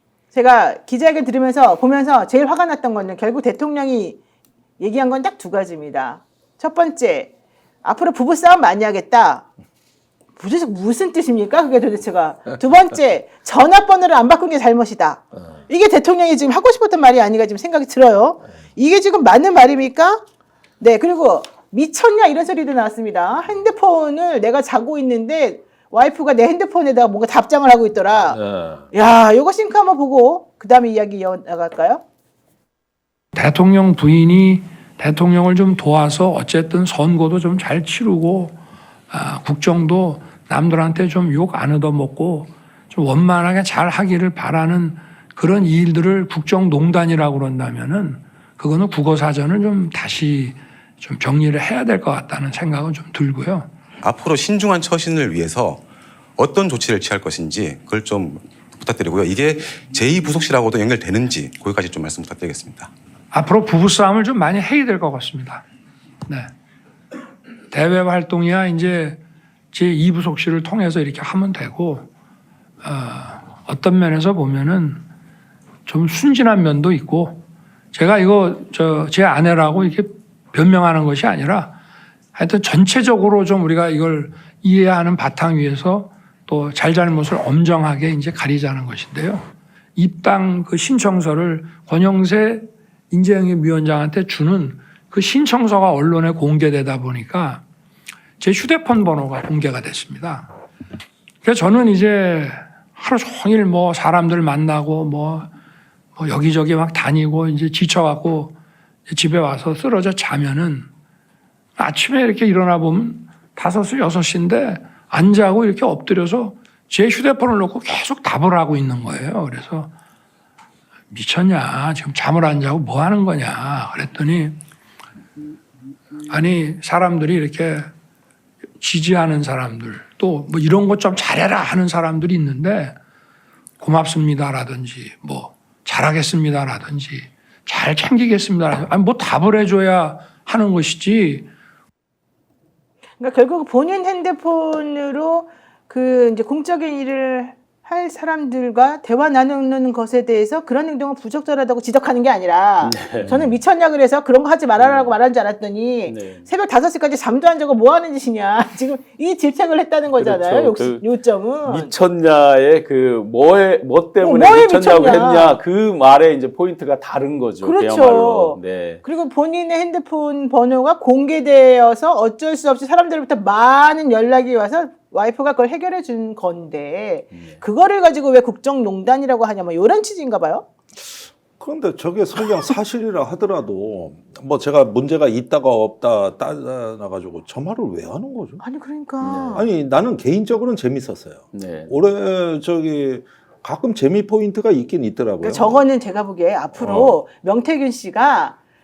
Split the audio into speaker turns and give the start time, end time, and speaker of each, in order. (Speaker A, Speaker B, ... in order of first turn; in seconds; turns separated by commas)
Speaker A: 0.3-4.2, Speaker A: 4.8-7.3, Speaker A: 7.8-9.4, Speaker A: 10.4-20.2, Speaker A: 20.8-28.4, Speaker B: 28.3-28.9, Speaker A: 28.9-32.0, Speaker C: 33.3-38.6, Speaker C: 39.1-53.7, Speaker D: 54.0-55.8, Speaker D: 56.4-62.9, Speaker C: 63.3-65.6, Speaker C: 67.7-69.2, Speaker C: 69.7-72.1, Speaker C: 72.8-75.0, Speaker C: 75.8-81.8, Speaker C: 82.3-97.6, Speaker C: 98.4-100.5, Speaker C: 101.4-105.5, Speaker C: 106.2-108.5, Speaker C: 109.1-110.9, Speaker C: 111.8-119.9, Speaker C: 121.1-124.6, Speaker C: 126.2-127.9, Speaker C: 128.8-132.9, Speaker C: 133.8-141.5, Speaker A: 143.2-161.9, Speaker E: 152.8-153.5, Speaker E: 154.8-155.2, Speaker E: 156.0-156.5, Speaker E: 160.1-161.0, Speaker E: 161.7-169.0, Speaker A: 164.2-165.6, Speaker A: 167.6-180.6, Speaker E: 177.3-177.6, Speaker B: 181.0-188.6, Speaker A: 188.6-189.7, Speaker E: 189.2-189.7, Speaker B: 189.5-195.8, Speaker E: 191.5-191.9, Speaker A: 195.4-198.6, Speaker B: 196.7-197.2